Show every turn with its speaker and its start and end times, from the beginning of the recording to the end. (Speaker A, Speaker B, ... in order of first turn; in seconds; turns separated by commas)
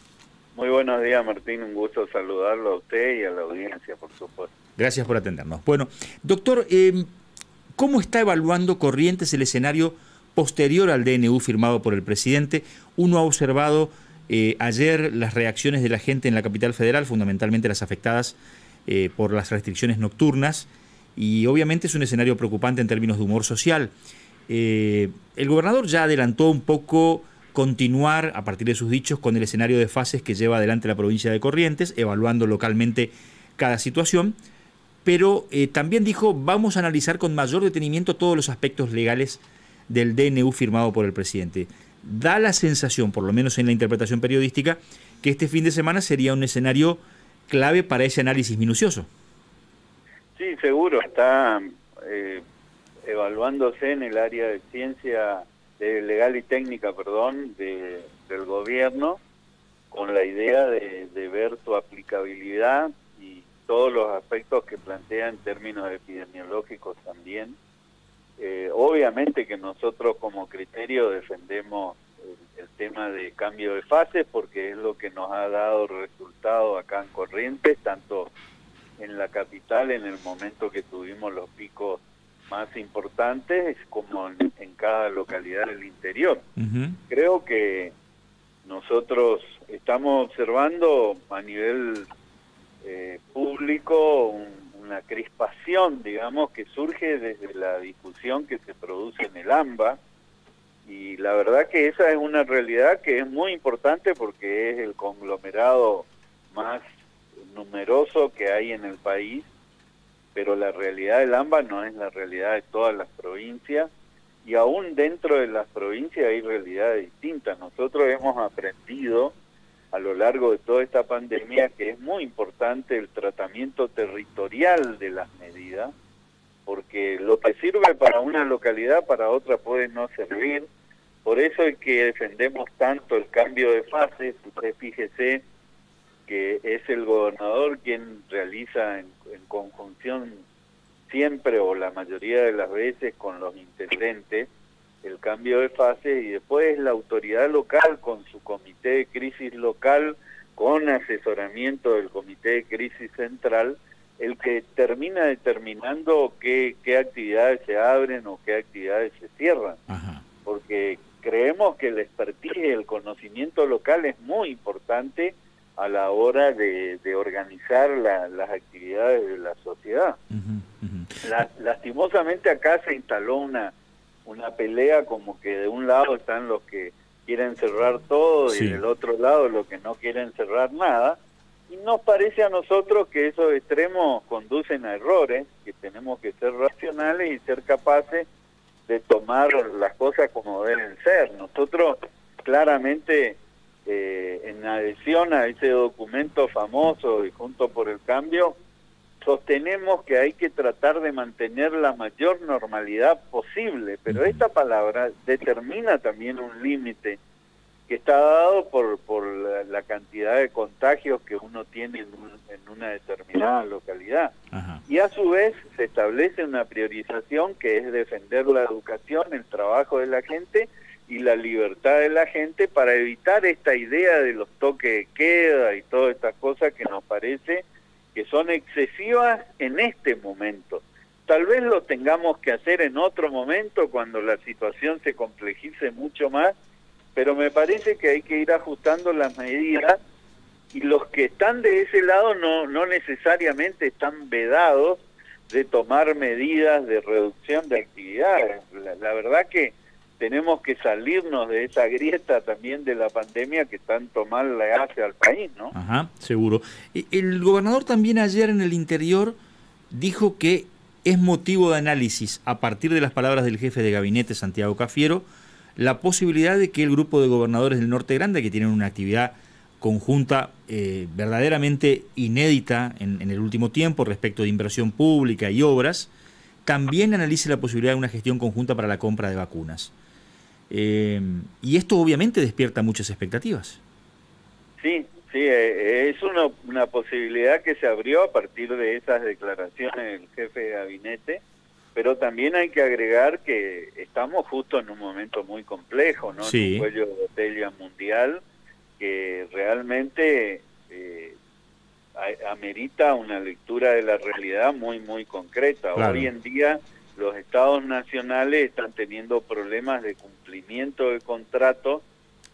Speaker A: 0.5-4.5, Speaker B: 4.8-7.1, Speaker B: 7.8-18.4, Speaker B: 18.9-23.9, Speaker B: 24.5-34.4, Speaker B: 35.0-49.1, Speaker A: 50.4-52.4, Speaker A: 53.0-59.2, Speaker A: 59.9-67.6, Speaker A: 68.4-78.3, Speaker A: 79.0-86.4, Speaker B: 86.6-87.0, Speaker A: 87.1-87.9, Speaker A: 88.6-92.1, Speaker A: 92.8-100.0, Speaker A: 100.8-106.8, Speaker A: 107.4-109.5, Speaker A: 110.3-113.9, Speaker A: 114.4-119.3, Speaker A: 119.9-125.9, Speaker A: 126.7-130.7, Speaker A: 131.2-135.4, Speaker A: 136.3-140.4, Speaker A: 141.1-144.5, Speaker A: 145.0-159.8, Speaker B: 159.9-160.2, Speaker A: 160.4-170.2, Speaker B: 170.3-171.2, Speaker A: 171.2-173.7, Speaker A: 174.2-181.2, Speaker B: 178.5-178.8, Speaker A: 181.7-188.3, Speaker A: 188.9-198.5, Speaker A: 199.2-207.2, Speaker B: 204.1-204.4, Speaker A: 207.9-214.3, Speaker B: 214.5-214.8, Speaker A: 214.9-236.5, Speaker A: 237.1-240.0, Speaker A: 240.7-255.7, Speaker B: 255.7-259.4, Speaker B: 259.9-265.2, Speaker B: 265.8-276.1, Speaker B: 276.6-279.9, Speaker B: 280.7-283.8, Speaker A: 284.8-291.4, Speaker A: 291.9-298.4, Speaker B: 296.4-296.9, Speaker A: 299.0-301.4, Speaker A: 302.1-312.0, Speaker B: 306.0-306.3